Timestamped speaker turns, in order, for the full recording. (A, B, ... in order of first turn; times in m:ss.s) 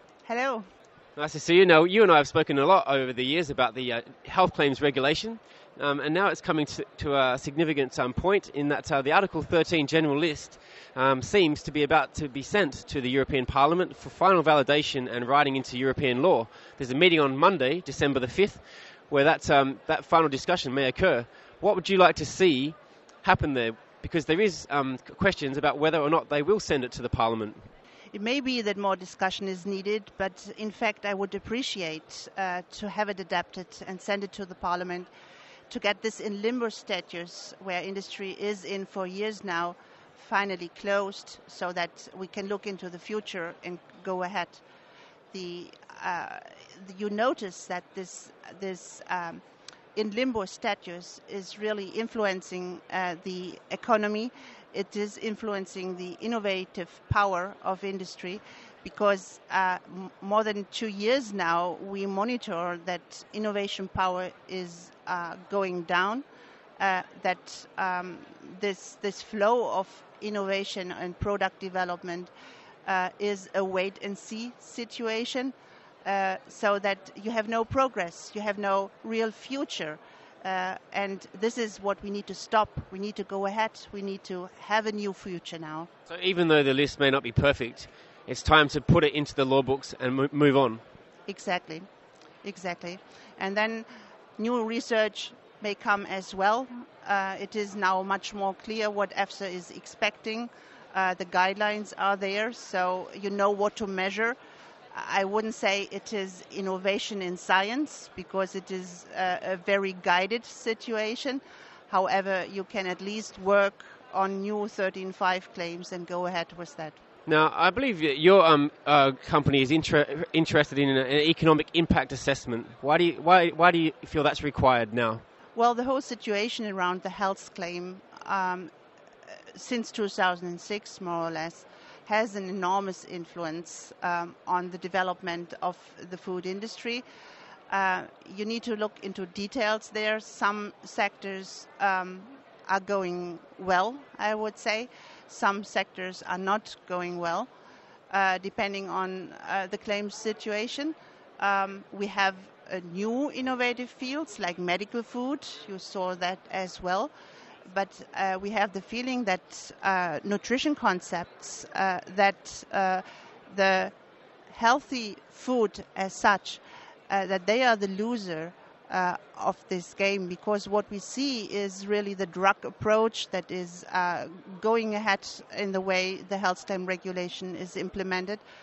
0:00.2-0:00.7 A
0:01.2-0:27.7 B
0:28.1-0:35.1 A
0:35.7-0:44.6 A
0:45.3-0:49.4 A
0:49.9-1:06.2 A
1:06.8-1:12.3 A
1:12.8-1:25.9 A
1:26.1-1:30.8 B
1:31.3-1:31.9 A
1:32.4-1:44.4 A
1:44.9-1:57.0 A
1:57.3-2:05.2 B
2:05.5-2:08.7 A
2:09.5-2:17.0 A
2:17.7-2:27.5 A
2:28.1-2:37.1 A
2:37.7-2:43.9 A
2:44.5-2:58.4 A